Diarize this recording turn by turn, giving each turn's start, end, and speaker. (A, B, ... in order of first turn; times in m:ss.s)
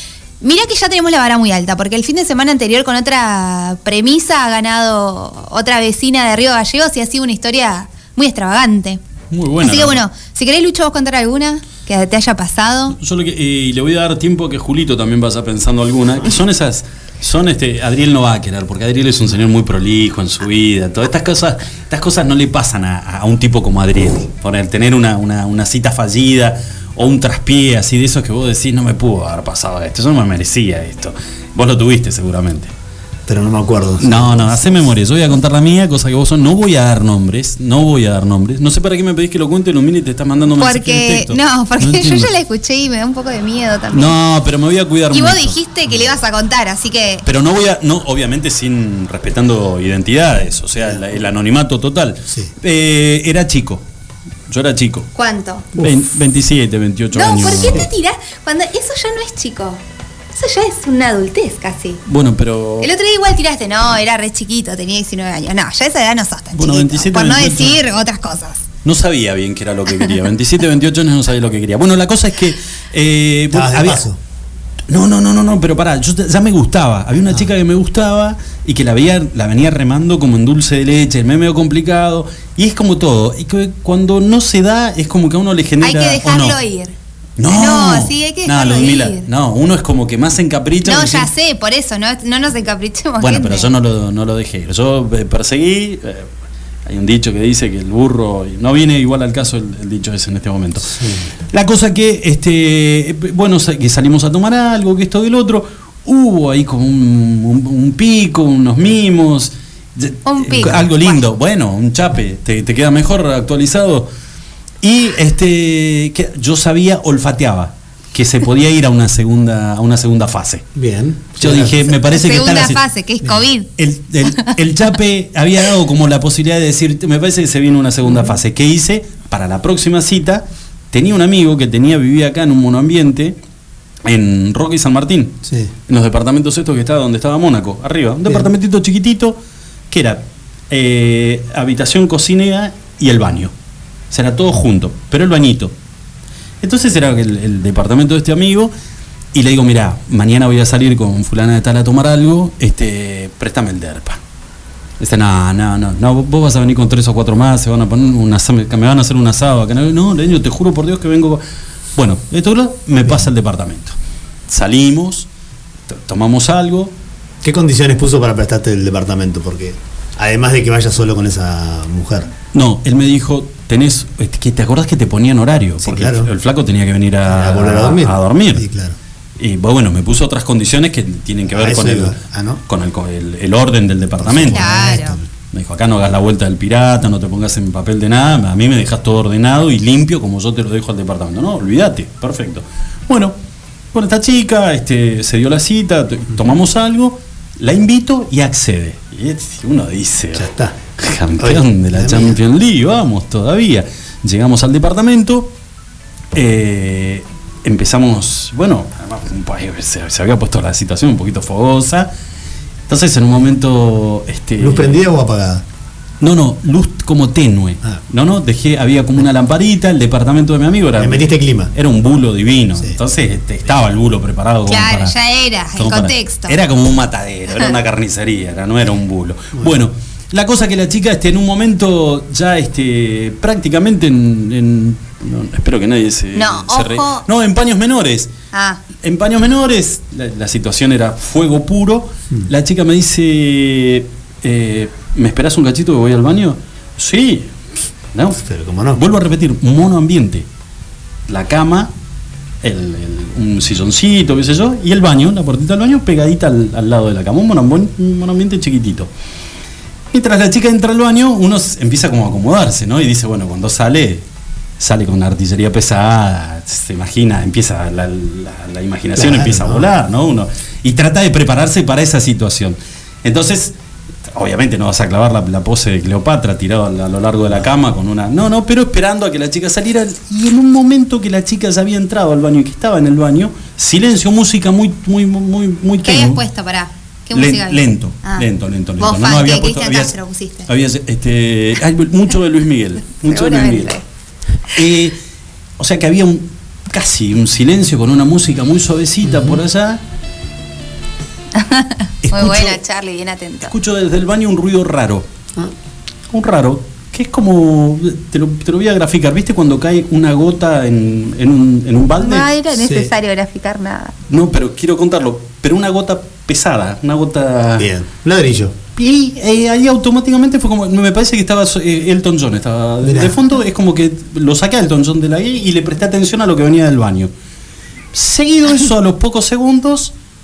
0:00.4-0:09.0 A
0:09.3-0:10.0 B
0:09.6-0:13.0 A
0:13.0-0:32.7 B
0:33.3-0:34.9 C
0:34.0-0:42.3 B
0:40.6-0:44.2 A
0:43.9-0:45.6 B
0:45.1-0:47.2 A
0:47.2-0:53.8 B
0:54.5-0:55.1 B
0:55.2-0:55.7 A
0:55.8-0:57.8 B
0:57.1-0:59.8 A
0:57.6-0:57.9 C
1:00.3-1:02.0 A
1:02.1-1:02.9 B
1:02.8-1:08.6 A
1:06.6-1:07.8 B
1:08.8-1:14.0 B
1:13.5-1:14.2 C
1:14.9-1:26.6 B
1:25.8-1:27.0 A
1:27.4-1:31.3 B
1:27.5-1:29.3 A
1:30.8-1:33.7 A
1:33.2-1:36.3 B
1:36.9-1:40.9 B
1:40.8-1:41.3 C
1:41.5-1:54.1 B
1:50.2-1:51.2 A
1:54.8-2:00.7 B
2:00.8-2:01.8 C
2:01.4-2:02.8 B
2:02.0-2:03.7 A
2:03.8-2:13.4 B
2:14.0-2:15.4 B
2:15.4-2:15.7 C
2:15.9-2:19.4 B
2:19.9-2:23.5 B
2:24.1-2:25.7 B
2:26.6-2:28.7 B
2:29.3-2:34.2 B
2:35.0-2:41.4 B
2:42.0-2:44.0 B
2:44.5-2:45.3 B
2:45.9-2:46.9 B
2:47.4-2:52.3 C
2:52.5-2:58.6 B
2:55.8-2:56.3 C
2:57.3-2:59.0 C
2:59.4-3:02.2 B
3:01.5-3:02.6 C
3:02.7-3:04.7 B
3:04.2-3:05.2 C
3:04.5-3:05.2 A
3:05.5-3:13.4 B
3:13.9-3:25.5 B
3:20.3-3:20.8 C
3:21.4-3:22.4 C
3:26.3-3:32.1 B
3:32.9-3:35.0 B
3:34.6-3:35.6 C
3:36.2-3:45.2 B
3:41.0-3:41.7 C
3:44.7-3:46.6 A
3:45.8-3:58.3 B
3:56.4-3:57.2 A
3:58.5-3:58.8 A
3:59.0-4:07.6 B
4:08.1-4:08.4 B
4:08.4-4:09.0 C
4:08.9-4:10.5 B
4:11.3-4:11.9 B
4:12.6-4:19.1 B
4:20.1-4:24.2 B
4:24.8-4:33.8 B
4:29.2-4:29.9 C
4:34.3-4:46.4 B
4:46.0-4:48.5 A
4:47.3-4:50.2 B
4:49.0-4:50.7 A
4:50.7-4:54.0 B
4:53.2-4:54.0 A
4:54.7-4:55.2 B
4:55.8-5:00.0 B
4:59.2-4:59.6 C
5:01.6-5:03.7 A
5:02.2-5:02.8 B
5:03.7-5:05.3 B
5:06.3-5:12.5 B
5:12.2-5:14.2 A
5:12.8-5:13.1 C
5:14.3-5:17.9 B
5:17.8-5:18.8 C
5:19.0-5:27.3 B
5:23.0-5:23.4 C
5:28.1-5:30.1 B